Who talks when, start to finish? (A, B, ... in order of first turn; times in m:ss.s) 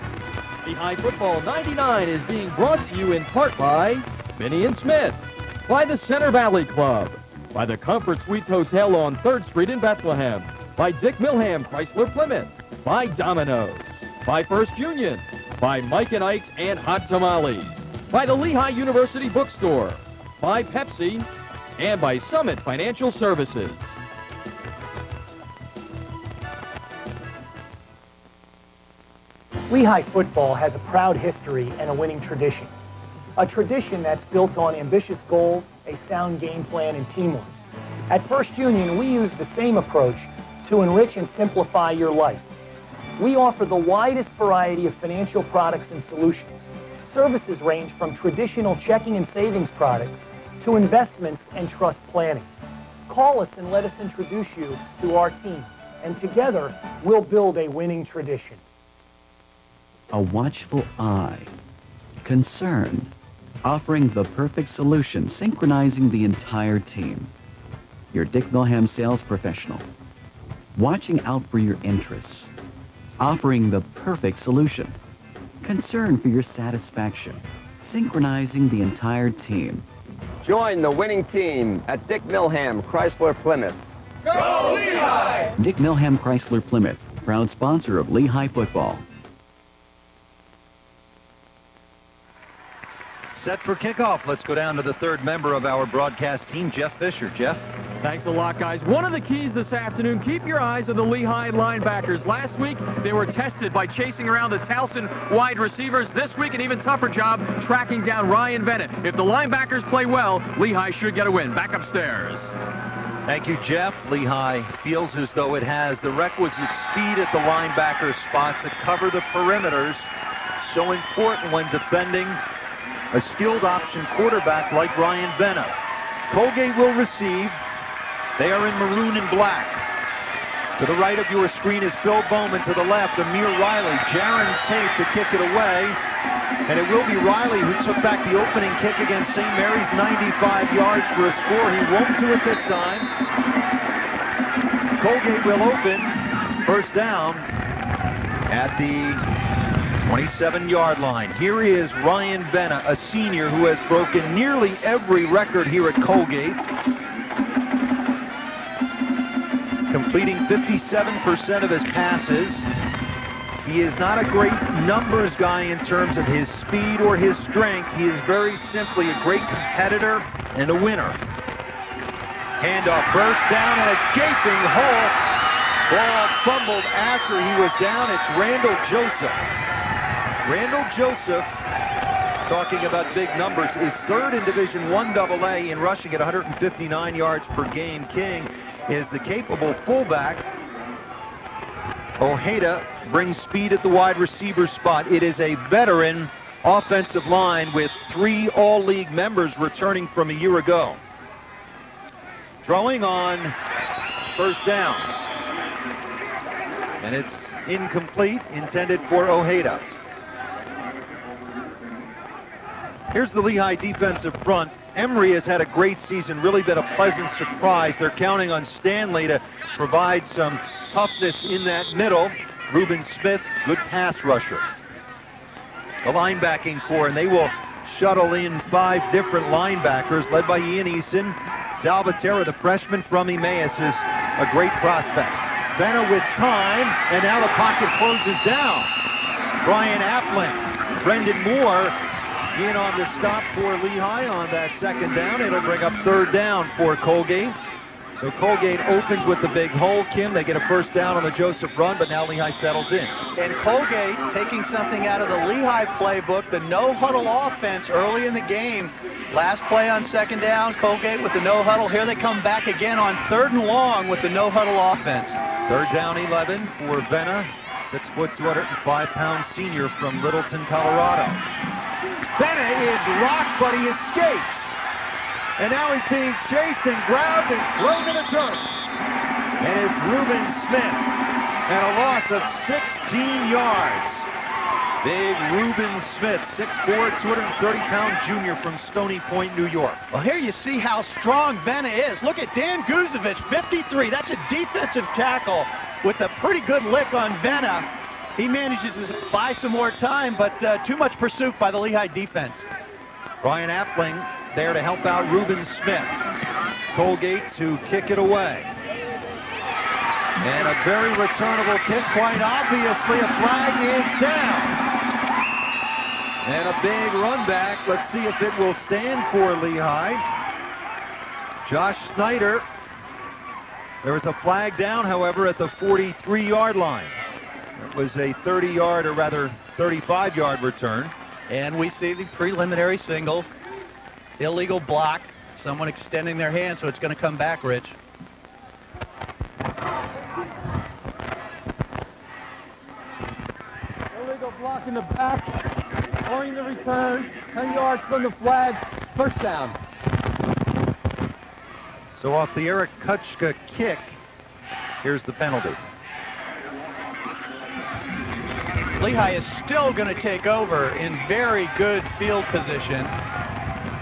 0:00.6-0:23.8 A
0:29.7-0:32.7 B
0:33.4-0:37.5 B
0:38.1-0:42.4 B
0:43.2-0:52.5 B
0:53.1-0:58.6 B
1:00.1-1:01.5 C
1:02.2-1:03.1 C
1:03.6-1:07.3 C
1:08.1-1:09.9 C
1:10.8-1:12.5 C
1:13.2-1:15.0 C
1:15.6-1:19.8 C
1:20.4-1:23.8 D
1:25.6-1:29.0 C
1:33.3-1:37.6 E
1:38.0-1:52.5 A
1:53.2-2:00.1 E
2:00.6-2:02.4 E
2:03.1-2:07.6 E
2:08.4-2:09.8 E
2:10.8-2:16.0 E
2:16.6-2:23.1 E
2:25.0-2:27.5 E
2:28.5-2:29.2 E
2:30.0-2:36.6 E
2:39.9-2:42.6 E
2:43.6-2:51.2 E
2:52.6-2:55.1 E
2:55.9-2:59.4 E
3:00.4-3:01.6 E
3:02.4-3:10.4 E
3:12.2-3:21.0 E
3:22.6-3:23.5 E
3:24.3-3:25.2 E
3:27.0-3:29.8 E
3:33.1-3:44.6 E
3:46.0-3:58.9 E
3:59.6-4:02.0 E
4:02.5-4:07.6 E
4:08.2-4:13.2 E
4:13.4-4:25.4 F
4:25.7-4:31.4 E
4:32.4-4:34.8 E
4:35.6-4:38.7 E
4:39.6-4:41.1 E
4:41.7-4:44.3 E
4:45.0-4:50.0 E
4:50.1-5:02.6 F
5:03.4-5:06.2 E
5:06.9-5:08.7 E
5:10.4-5:14.8 E
5:16.4-5:20.2 E
5:21.6-5:22.6 E
5:24.0-5:27.2 E
5:27.8-5:31.1 E
5:31.5-5:33.5 F
5:34.4-5:37.9 F
5:52.1-5:54.2 E
5:55.0-5:55.8 E
5:59.0-6:03.1 F